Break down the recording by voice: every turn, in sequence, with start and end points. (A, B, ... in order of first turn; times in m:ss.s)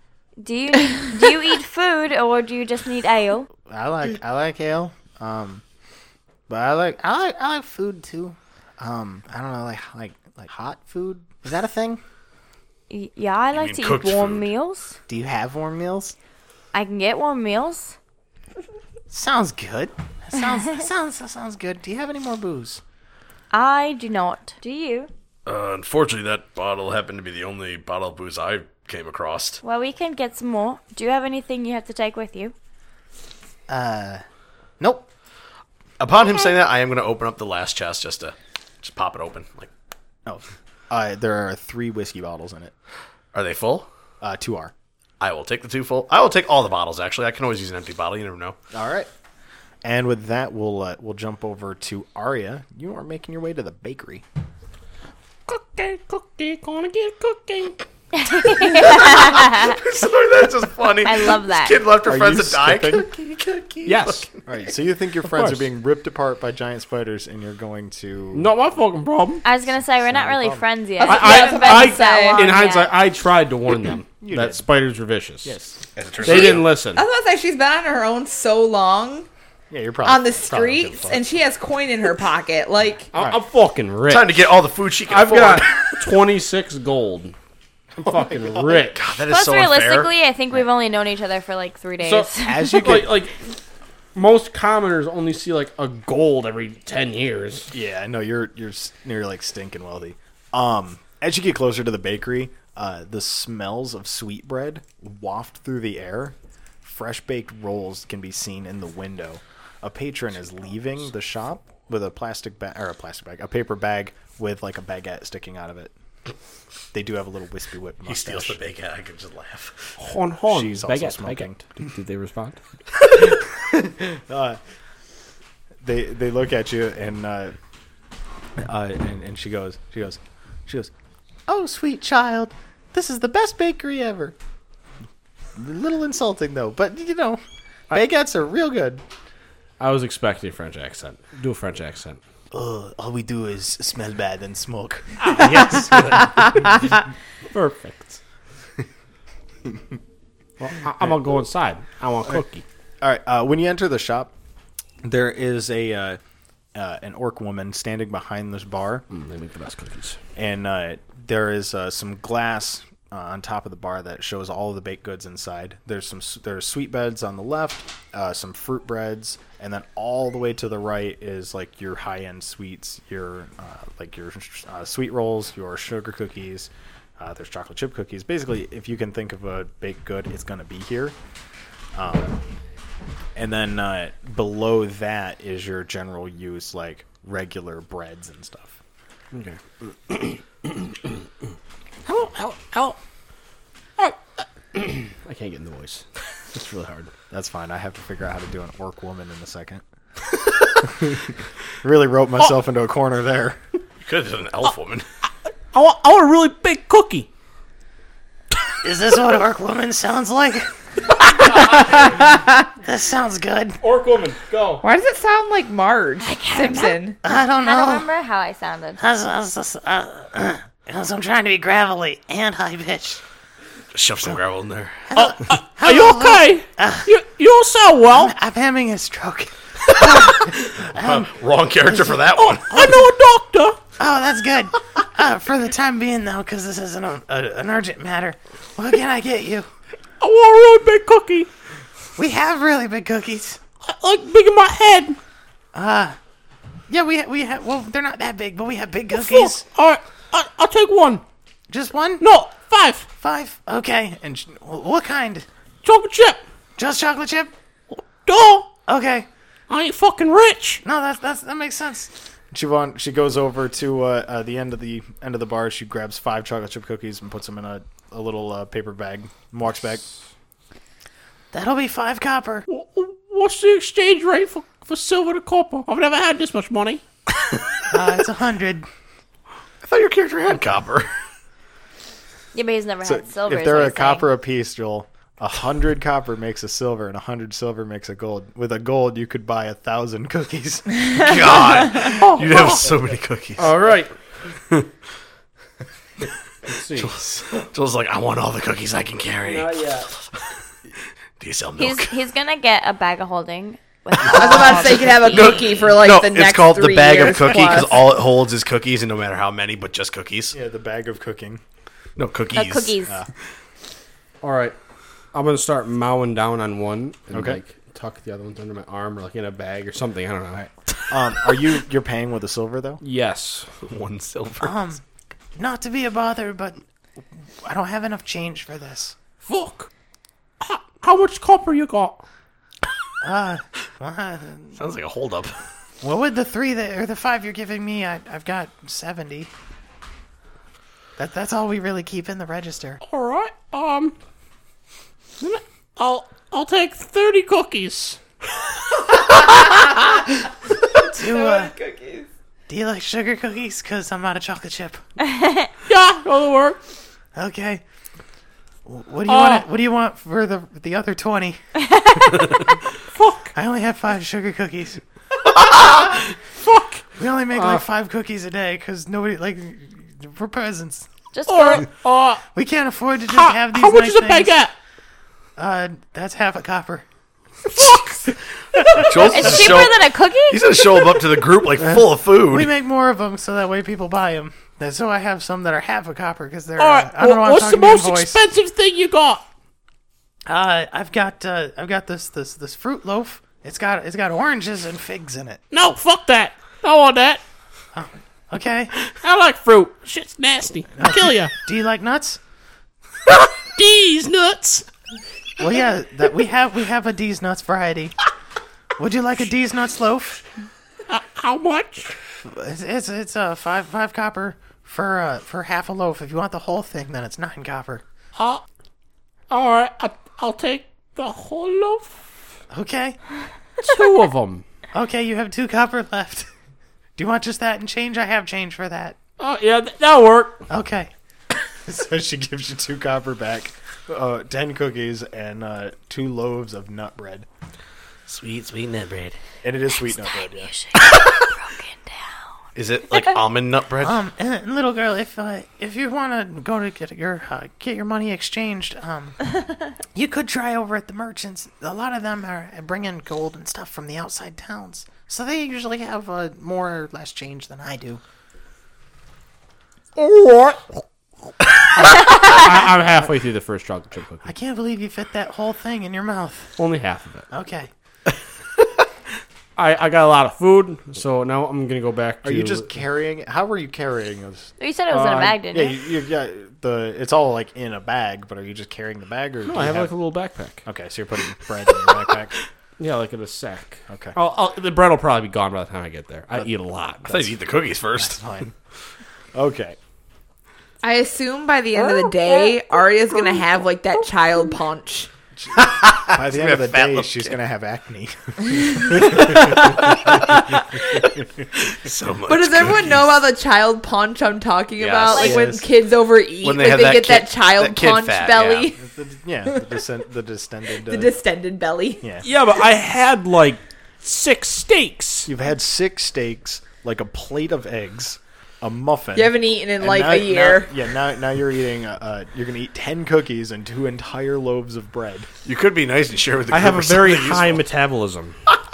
0:00.4-0:03.5 A
0:03.7-0:05.4 B
0:05.1-0:05.6 C
0:06.5-0:12.0 B
0:12.9-0:15.0 A
0:13.5-0:14.5 D
0:15.1-0:16.1 B
0:16.7-0:18.0 A
0:19.1-0:22.8 B
0:23.5-0:25.1 A
0:25.4-0:29.6 D
0:29.6-0:32.5 A
0:33.7-0:34.2 B
0:34.8-0:35.0 B
0:36.0-0:39.7 D
0:40.2-0:42.7 C
0:43.3-0:43.9 D
0:44.2-0:44.7 C
0:45.2-0:48.6 D
0:48.7-0:49.1 C
0:49.8-0:54.2 C
0:55.5-0:57.8 E
0:58.1-0:59.8 A
0:58.4-0:58.9 E
0:58.8-1:04.3 D
1:01.0-1:01.8 A
1:02.0-1:03.1 C
1:03.8-1:04.3 E
1:04.4-1:08.5 C
1:05.3-1:05.6 E
1:08.3-1:09.4 E
1:09.4-1:12.9 A
1:10.0-1:10.7 C
1:11.0-1:12.7 F
1:11.0-1:15.5 E
1:14.2-1:14.6 C
1:15.4-1:15.8 C
1:16.0-1:16.7 D
1:16.2-1:17.0 E
1:16.2-1:19.3 F
1:19.7-1:21.2 C
1:20.0-1:23.1 F
1:23.1-1:23.4 C
1:23.1-1:24.3 E
1:24.1-1:25.9 D
1:25.1-1:27.4 E
1:28.0-1:29.0 E
1:28.0-1:28.9 C
1:28.9-1:30.1 D
1:29.3-1:33.0 A
1:32.0-1:33.4 E
1:32.4-1:33.2 C
1:34.1-1:37.7 E
1:37.7-1:55.9 C
1:56.9-1:58.6 C
1:58.0-2:00.0 D
2:00.0-2:02.6 E
2:00.5-2:01.6 C
2:04.1-2:04.6 C
2:05.8-2:07.6 C
2:08.6-2:10.9 C
2:11.5-2:14.3 B
2:15.6-2:17.4 B
2:18.0-2:19.0 B
2:19.8-2:22.2 E
2:22.5-2:26.2 C
2:22.6-2:23.6 B
2:25.2-2:27.0 E
2:27.5-2:28.2 E
2:30.6-2:32.6 E
2:33.0-2:34.3 C
2:35.0-2:36.2 C
2:36.7-2:39.0 C
2:39.1-2:40.2 E
2:40.4-3:01.2 C
3:01.9-3:02.4 C
3:03.4-3:08.8 C
3:09.3-3:11.0 E
3:12.0-3:13.0 E
3:14.0-3:17.1 E
3:17.3-3:19.8 C
3:20.8-3:21.2 C
3:21.8-3:23.6 C
3:24.0-3:25.0 D
3:25.7-3:27.3 E
3:28.8-3:33.8 B
3:31.6-3:32.1 E
3:33.8-3:34.8 E
3:34.8-3:37.2 F
3:36.2-3:39.0 A
3:37.2-3:38.0 B
3:39.0-3:43.2 B
3:43.9-3:45.1 D
3:45.1-3:47.1 B
3:45.1-3:48.3 E
3:48.1-3:51.3 B
3:50.4-3:53.0 D
3:52.3-3:53.8 E
3:54.0-3:59.7 B
4:00.2-4:01.5 E
4:02.2-4:03.6 B
4:03.8-4:05.2 E
4:05.7-4:06.2 B
4:06.9-4:09.6 B
4:09.1-4:11.2 E
4:11.7-4:12.2 B
4:12.2-4:13.1 E
4:13.2-4:15.5 B
4:15.8-4:16.4 E
4:16.8-4:17.5 B
4:17.9-4:18.7 E
4:18.9-4:19.3 B
4:19.7-4:20.8 E
4:20.8-4:22.1 B
4:22.5-4:30.0 C
4:31.5-4:32.6 B
4:32.7-4:37.0 E
4:37.9-4:38.8 B
4:39.8-4:41.1 D
4:42.5-4:44.3 A
4:43.0-4:50.8 C
4:51.2-4:53.8 D
4:52.0-4:52.9 E
4:53.6-4:54.1 E
4:56.6-4:57.1 E
4:56.9-5:00.5 D
4:59.5-5:00.1 E
5:01.4-5:02.2 D
5:01.8-5:05.8 A
5:04.2-5:08.0 F
5:04.6-5:10.5 D
5:10.5-5:11.6 C
5:12.2-5:13.0 D
5:12.5-5:13.2 A
5:14.4-5:14.8 E
5:15.3-5:20.6 E
5:17.3-5:17.6 C
5:20.5-5:23.0 C
5:23.0-5:23.7 E
5:23.8-5:24.8 D
5:24.6-5:25.0 B
5:25.6-5:26.8 B
5:27.6-5:29.2 B
5:29.4-5:29.9 E
5:30.6-5:32.2 E
5:33.2-5:34.8 B
5:34.8-5:35.6 D
5:36.0-5:39.5 B
5:41.2-5:43.0 B
5:43.0-5:44.1 E
5:45.4-5:48.2 E
5:50.9-5:51.7 B
5:50.9-5:52.3 F
5:52.7-5:55.0 B
5:55.2-5:55.7 A
5:55.8-5:56.8 E
5:57.3-5:57.8 B
5:58.8-6:01.6 B
5:59.2-5:59.6 E
6:02.0-6:02.2 A
6:03.1-6:03.5 E
6:03.5-6:05.0 B
6:05.6-6:07.8 E
6:07.2-6:11.1 B
6:11.3-6:11.9 A
6:11.5-6:12.4 E
6:12.5-6:14.6 B
6:13.3-6:14.7 E
6:15.6-6:17.0 B
6:17.7-6:18.3 E
6:18.9-6:19.6 B
6:19.0-6:22.7 D
6:19.1-6:21.0 A
6:22.5-6:28.4 B
6:26.8-6:29.4 E
6:30.4-6:35.6 B
6:35.7-6:37.4 E
6:37.9-6:38.9 B
6:39.1-6:41.5 E
6:41.0-6:42.4 B
6:43.3-6:44.8 E
6:45.6-6:48.1 B
6:49.0-6:50.4 B
6:51.1-6:52.1 E
6:52.4-6:58.0 B
6:58.4-6:58.6 E
6:59.5-7:02.2 E
7:02.7-7:03.2 B
7:03.8-7:04.6 E
7:04.9-7:06.5 B
7:07.2-7:09.2 B
7:09.4-7:10.6 E
7:10.7-7:11.1 B
7:11.9-7:17.5 C
7:18.3-7:19.4 D
7:19.6-7:20.7 C
7:20.0-7:22.4 A
7:22.7-7:24.2 D
7:24.0-7:29.4 B
7:30.1-7:38.2 B
7:40.2-7:41.0 E
7:41.9-7:44.5 E
7:44.4-7:46.7 B
7:46.8-7:47.5 E
7:47.5-7:47.9 B
7:49.8-7:52.9 E
7:52.4-7:54.7 C
7:54.8-7:56.0 A
7:55.1-7:55.6 E
7:55.7-8:00.1 C
7:59.6-8:00.8 E
8:00.8-8:02.5 C
8:03.0-8:07.4 E
8:04.1-8:04.4 C
8:07.2-8:07.5 C
8:07.2-8:08.4 D
8:08.1-8:08.7 C
8:09.5-8:10.0 C
8:11.0-8:15.3 F
8:12.3-8:12.7 A
8:15.6-8:20.0 C
8:16.0-8:17.6 D
8:18.8-8:21.0 F
8:21.7-8:23.3 D
8:22.5-8:29.0 F
8:25.0-8:25.6 D
8:25.4-8:25.8 C
8:26.6-8:28.9 D
8:28.9-8:31.3 C
8:31.0-8:32.2 F
8:32.4-8:35.5 E
8:35.5-8:45.5 C
8:39.3-8:41.1 F
8:45.6-8:47.8 D
8:46.7-8:48.6 E